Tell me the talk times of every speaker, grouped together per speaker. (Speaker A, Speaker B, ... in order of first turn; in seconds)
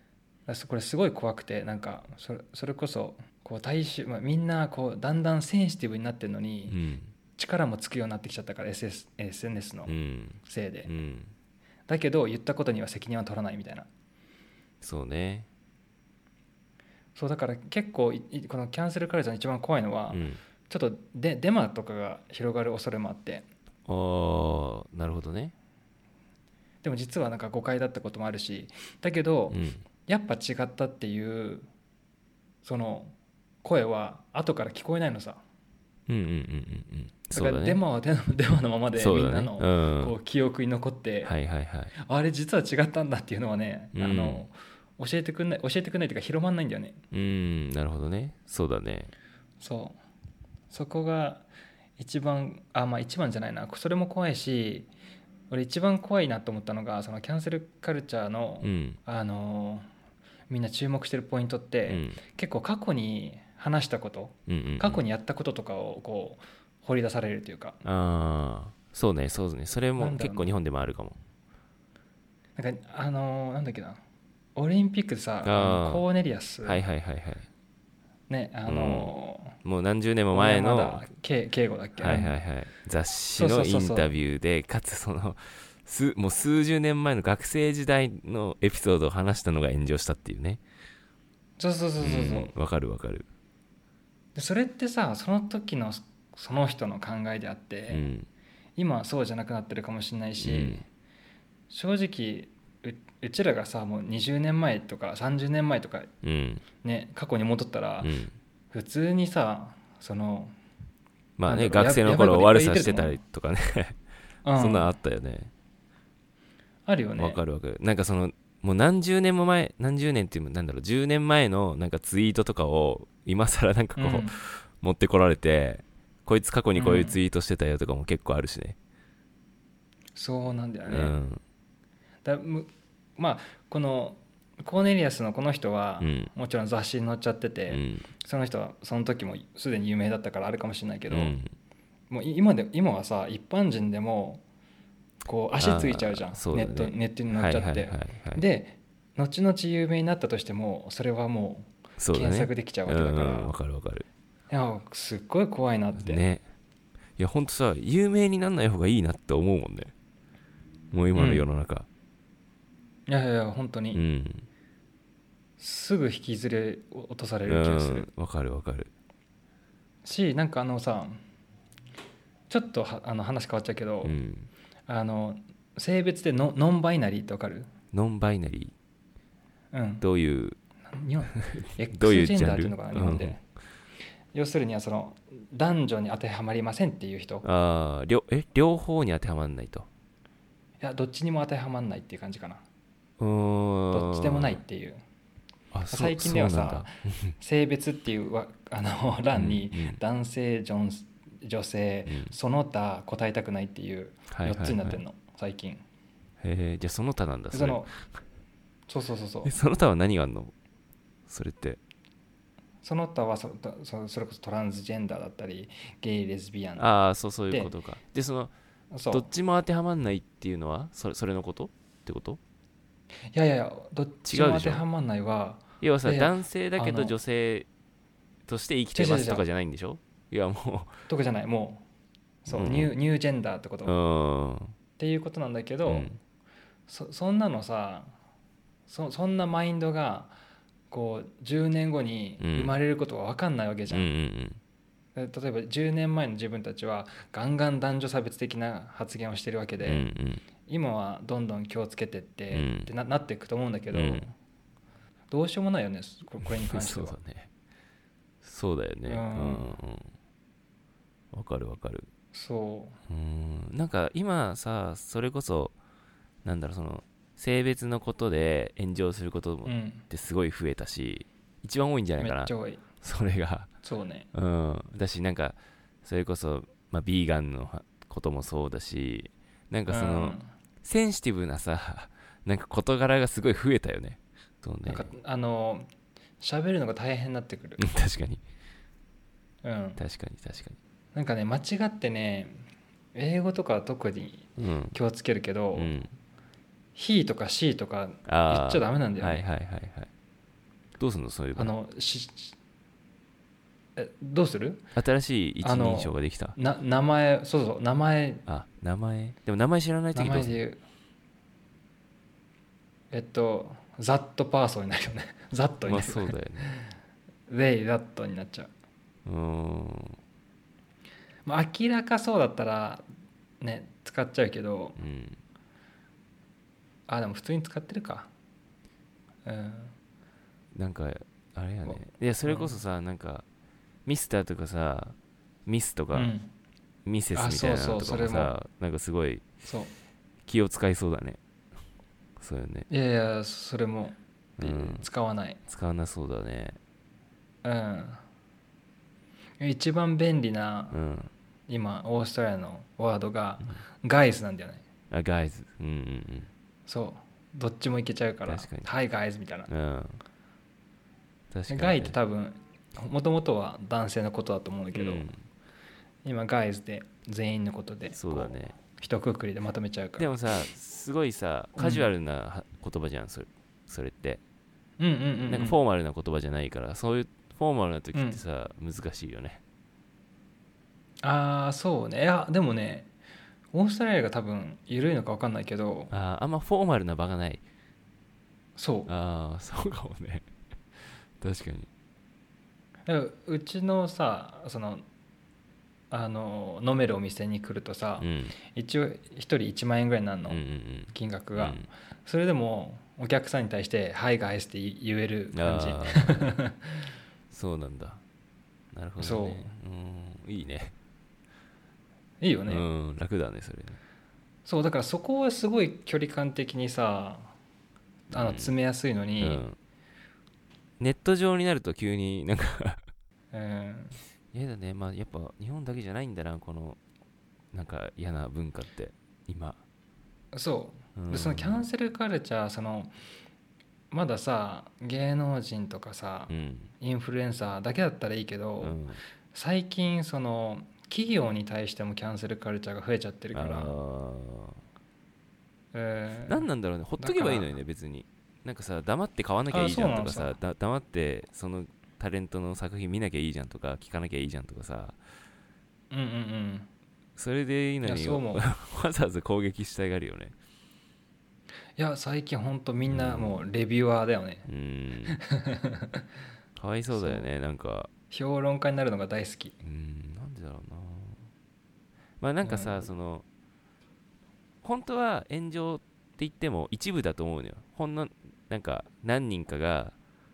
Speaker A: 0.5-6.8, 7.4-10.9, 11.9-13.9, 17.1-23.4, 26.8-31.7, 32.6-35.4, 37.3-41.3, 42.0-47.0, 49.6-50.0, 50.7-54.9, 55.5-59.9, 60.5-67.8, 70.0-70.6, 72.5-74.0, 74.5-76.8, 78.3-79.5, 80.3-82.3, 83.3-84.1, 91.6-92.5, 94.3-98.1, 98.8-100.9, 101.7-106.1, 106.8-108.1, 108.7-110.5, 111.4-113.2, 114.4-114.9, 116.8-117.4, 124.0-124.3, 126.7-127.2, 130.1-131.2, 132.2-141.3, 142.1-144.4, 145.2-153.5, 154.5-156.2, 161.1-161.4, 163.1-164.0, 165.6-168.1, 170.0-171.2, 172.5-174.2, 174.9-177.7, 179.7-180.0, 180.9-183.4, 184.3-187.4, 190.8-192.6, 193.9-195.0, 195.9-205.8, 207.5-207.9, 208.9-209.5, 212.8-216.9, 218.9-219.3, 223.3-227.2, 228.9-229.4, 231.1-231.8, 232.4-233.9, 235.0-236.1, 236.9-238.1, 238.9-240.4, 240.9-244.1, 245.1-250.1, 250.7-254.3, 255.3-257.1, 259.1-259.7, 262.3-263.0, 269.6-270.0, 272.2-272.8, 273.8-274.3, 279.9-280.5, 284.9-287.8, 289.6-290.0, 291.1-295.9, 296.9-299.4, 301.6-302.6, 304.0-304.8, 305.6-308.4, 310.1-310.8, 313.1-316.8, 317.5-318.7, 321.4-323.0, 323.6-325.0, 327.1-328.3, 329.4-329.9, 331.8-332.8, 336.1-336.5, 337.3-338.5, 339.6-339.9, 342.9-345.6, 347.6-348.2, 349.6-351.0, 351.7-354.8, 356.9-359.7, 361.7-365.3, 366.2-370.3, 371.8-372.1, 375.0-375.8, 378.1-378.4, 381.2-383.1, 383.7-386.1, 388.8-389.1, 393.1-395.0, 396.1-407.0, 409.2-409.7, 412.4-412.9, 414.6-417.5, 418.3-419.6, 423.5-424.2, 430.5-433.1, 434.1-439.0, 439.5-443.9, 445.9-446.7, 447.2-447.7, 449.7-450.6, 456.1-456.9, 458.0-458.6, 462.0-464.7, 465.3-466.2, 467.1-467.5, 468.3-469.7, 472.6-473.1
Speaker B: 6.7-7.1, 9.8-11.3, 14.8-15.5, 20.1-20.4, 23.9-25.5, 29.5-29.8, 36.1-37.8, 38.9-40.1, 41.2-41.9, 43.9-44.4, 47.1-49.1, 58.6-59.0, 61.9-62.2, 64.5-65.0, 67.8-71.2, 75.4-76.0, 76.6-77.5, 78.7-81.1, 82.0-90.6, 92.0-93.2, 97.9-98.3, 100.4-100.8, 106.2-106.6, 108.0-108.3, 111.4-114.0, 114.5-115.5, 117.2-128.8, 130.9-131.4, 136.0-136.3, 137.7-138.1, 141.1-141.5, 145.6-148.4, 152.0-154.1, 155.9-156.4, 157.2-159.9, 160.9-161.9, 163.9-164.5, 167.5-168.9, 174.0-174.5, 177.9-178.7, 180.0-180.6, 181.3-183.3, 187.4-189.9, 193.2-194.6, 195.7-197.3, 199.3-200.0, 202.1-202.3, 204.3-205.0, 206.4-208.0, 209.4-210.5, 211.3-211.8, 216.8-218.5, 219.1-222.4, 224.2-224.8, 225.8-227.7, 228.5-231.0, 232.5-232.9, 233.8-234.7, 235.8-236.2, 242.4-242.7, 243.9-244.6, 249.8-250.4, 252.5-252.9, 253.9-254.3, 256.4-257.5, 258.4-260.1, 261.3-262.1, 263.1-265.7, 266.4-273.7, 274.3-285.1, 287.8-288.4, 290.0-290.8, 294.6-294.9, 295.7-296.1, 298.2-300.1, 301.0-301.7, 304.9-306.6, 308.5-310.6, 315.9-316.7, 319.2-320.2, 325.0-325.4, 330.7-333.4, 334.0-336.3, 337.1-339.4, 340.4-341.4, 342.4-342.9, 344.6-345.1, 345.7-346.8, 350.9-351.3, 355.1-356.5, 358.4-358.9, 359.7-360.2, 361.5-362.1, 364.9-365.4, 368.1-368.8, 370.2-374.4, 375.5-379.6, 386.1-387.6, 389.1-390.5, 391.4-391.9, 398.2-398.6, 400.5-401.9, 405.5-406.6, 407.5-408.2, 408.9-410.9, 412.7-414.0, 418.3-418.8, 419.4-419.8, 421.0-423.0, 424.5-427.0, 427.7-429.8, 431.1-431.9, 436.5-436.9, 438.8-439.2, 443.5-444.8, 446.4-455.2, 457.4-460.5, 463.1-463.6, 464.6-465.4, 466.8-468.1, 469.8-471.5, 472.4-473.4, 474.8-480.1